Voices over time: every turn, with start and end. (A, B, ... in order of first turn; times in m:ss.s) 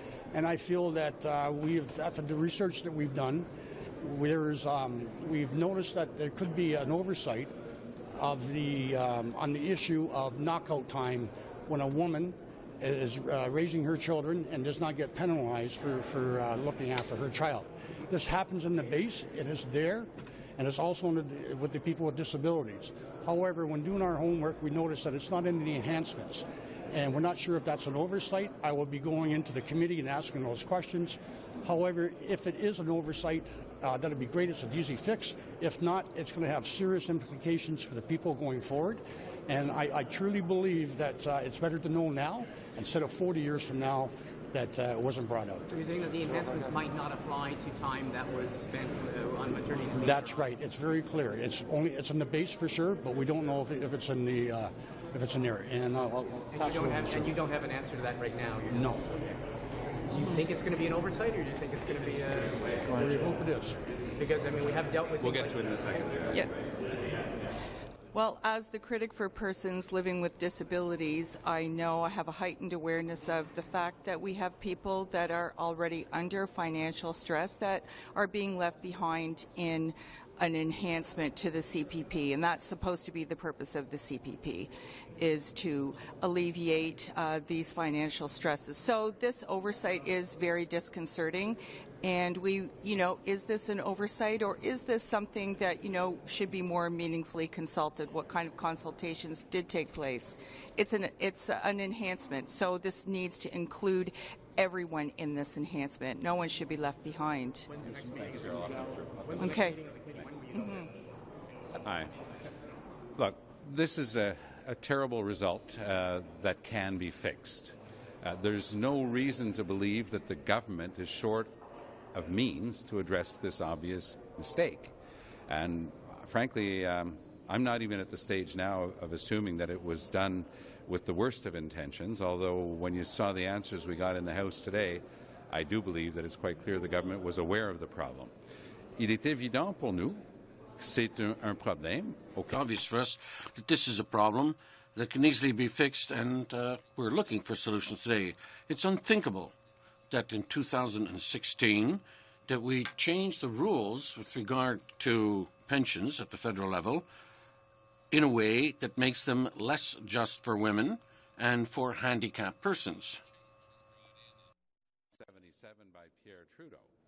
0:00.3-0:03.5 A
0:04.0-0:07.5 A
0:08.1-0:45.7 A
0:45.7-0:50.4 B
0:50.0-0:57.3 A
0:56.5-0:59.0 B
0:58.7-0:59.0 A
1:00.1-1:02.9 B
1:02.9-1:03.8 A
1:04.2-1:05.8 B
1:05.2-1:06.4 C
1:08.1-1:47.7 D
1:47.7-1:50.9 B
1:49.4-1:49.7 D
1:51.8-1:52.1 C
1:53.2-2:01.5 C
2:02.1-2:04.9 C
2:05.5-2:18.3 C
2:19.0-2:20.2 C
2:20.8-2:22.6 C
2:22.5-2:29.5 E
2:30.1-2:37.1 E
2:38.1-2:43.2 E
2:45.1-2:46.9 C